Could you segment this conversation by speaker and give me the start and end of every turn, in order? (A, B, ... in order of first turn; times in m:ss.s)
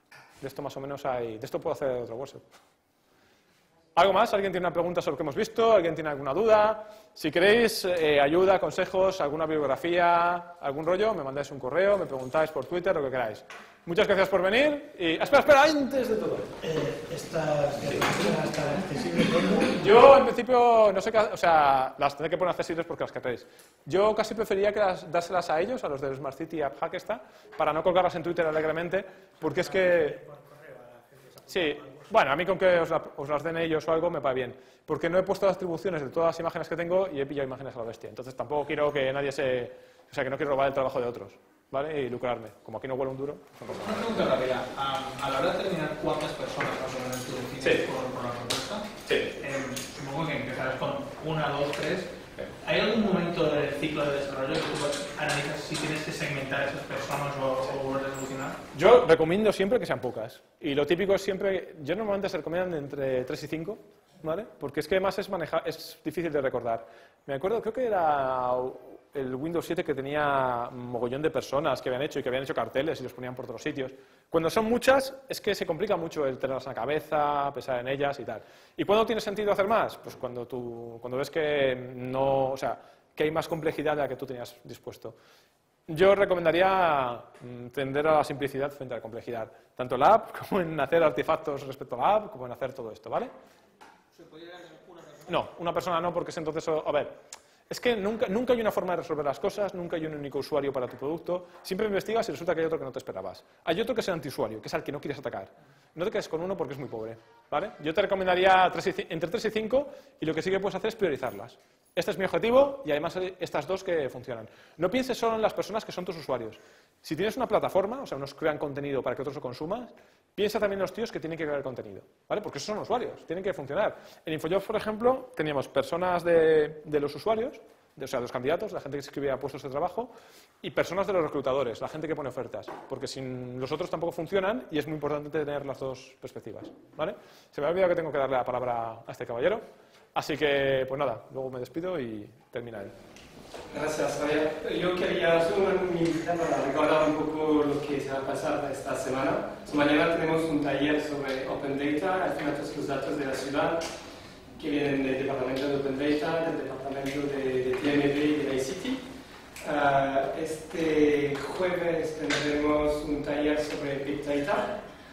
0:00.4-0:02.4 A
0:04.0-0:16.5 A
0:16.6-0:19.9 B
0:19.8-0:30.2 A
0:29.4-0:32.1 B
0:31.5-0:44.2 A
0:43.7-0:58.6 C
0:47.6-0:47.9 A
0:49.1-0:49.4 A
0:58.7-1:25.2 A
1:25.9-1:33.3 A
1:34.1-1:35.3 C
1:35.3-1:37.2 A
1:37.7-2:23.0 A
2:23.7-2:33.9 D
2:34.6-2:39.1 D
2:39.6-2:44.8 D